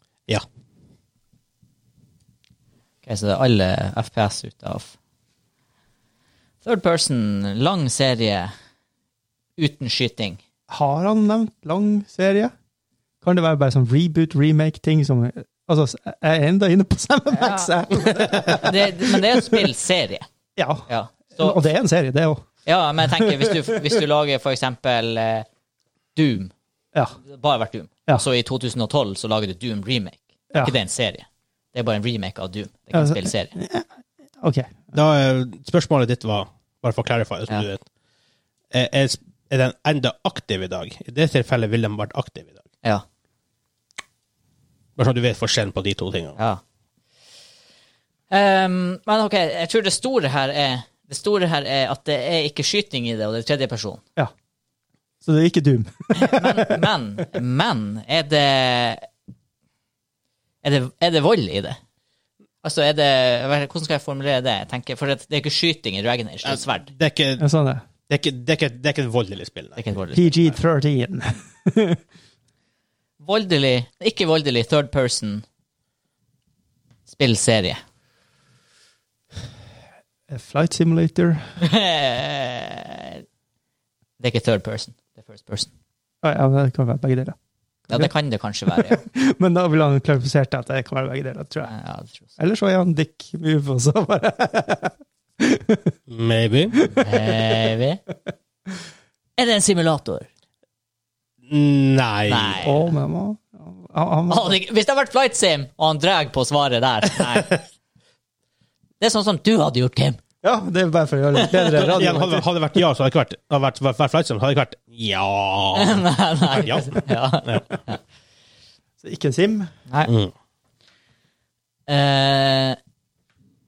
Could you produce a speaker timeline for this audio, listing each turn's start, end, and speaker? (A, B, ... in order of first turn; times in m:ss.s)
0:03.0-0:04.9 A
0:06.6-0:08.5 A
0:09.6-0:10.4 A
0:10.7-0:12.5 B
0:13.2-0:19.7 B
0:17.3-0:20.2 A
0:20.6-0:22.4 B
0:20.9-0:21.6 A
0:22.6-0:25.4 A
0:23.1-0:23.6 B
0:26.2-0:26.5 A
0:27.2-0:33.5 A
0:32.9-0:33.8 B
0:34.4-0:34.9 B
0:34.9-0:37.8 C
0:38.7-0:42.6 C
0:45.0-0:46.4 C
0:46.4-0:46.6 A
0:48.3-0:54.0 A
0:55.2-0:56.8 B
0:56.1-0:59.1 A
1:00.6-1:01.8 A
1:02.6-1:06.9 A
1:06.4-1:07.4 C
1:07.4-1:07.8 B
1:08.1-1:09.9 C
1:09.8-1:10.6 A
1:10.1-1:12.0 B
1:13.2-1:15.4 A
1:17.1-1:17.8 A
1:20.3-1:21.4 B
1:21.6-1:23.2 A
1:24.2-1:25.7 A
1:26.2-1:27.4 B
1:27.9-1:29.0 A
1:28.7-1:31.7 B
1:31.6-1:32.3 A
1:32.4-1:36.0 B
1:36.1-1:36.8 C
1:36.7-1:37.5 B
1:36.9-1:38.0 A
1:39.4-1:40.3 A
1:41.5-1:42.6 C
1:42.3-1:42.9 A
1:42.6-1:44.6 B
1:44.3-1:47.6 A
1:49.0-1:50.2 A
1:50.4-1:52.4 B
1:51.3-1:51.7 A
1:51.7-1:57.7 C
1:55.7-1:58.0 A
1:59.0-1:59.7 B
2:00.1-2:00.3 C
2:01.9-2:02.8 A